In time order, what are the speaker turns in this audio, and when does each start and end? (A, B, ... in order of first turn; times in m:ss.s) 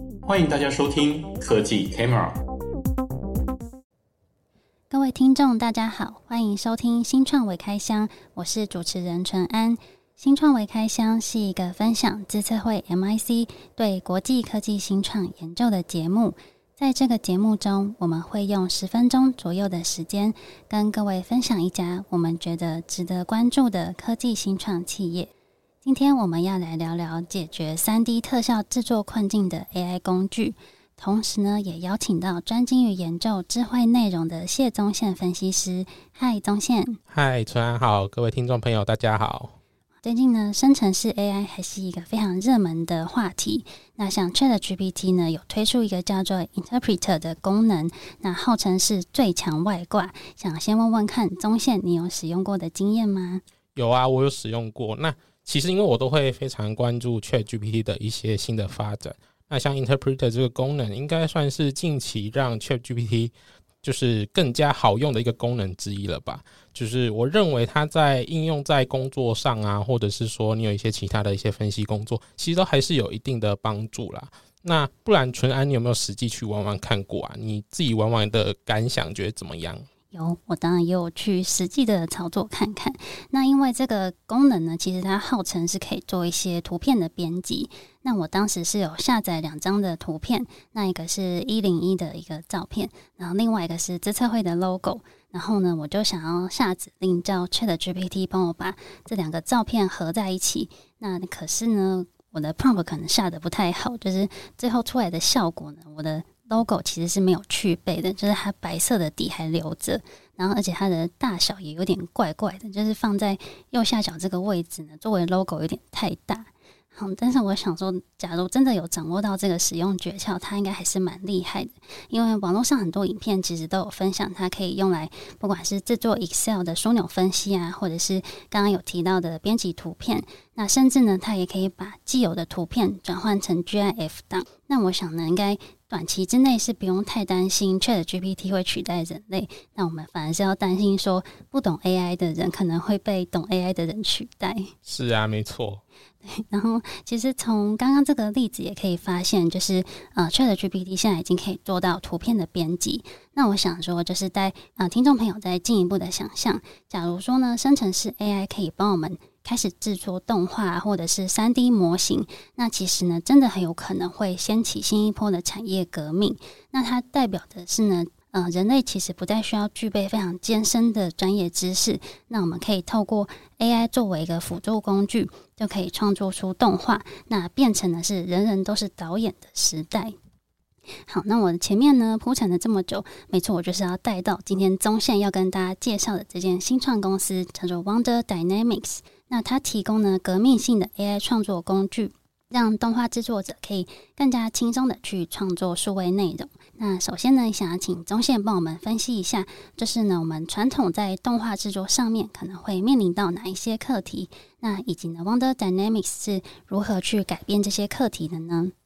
0:00.2-0:02.3 A
0:04.9-0:25.3 B
0:25.8-0:37.0 B
0:37.1-0:39.5 C
0:40.0-0:53.4 B
0:53.7-1:19.8 C
1:20.1-2:24.7 B
2:24.9-2:25.8 C
2:26.2-3:00.2 B
3:01.1-3:28.7 B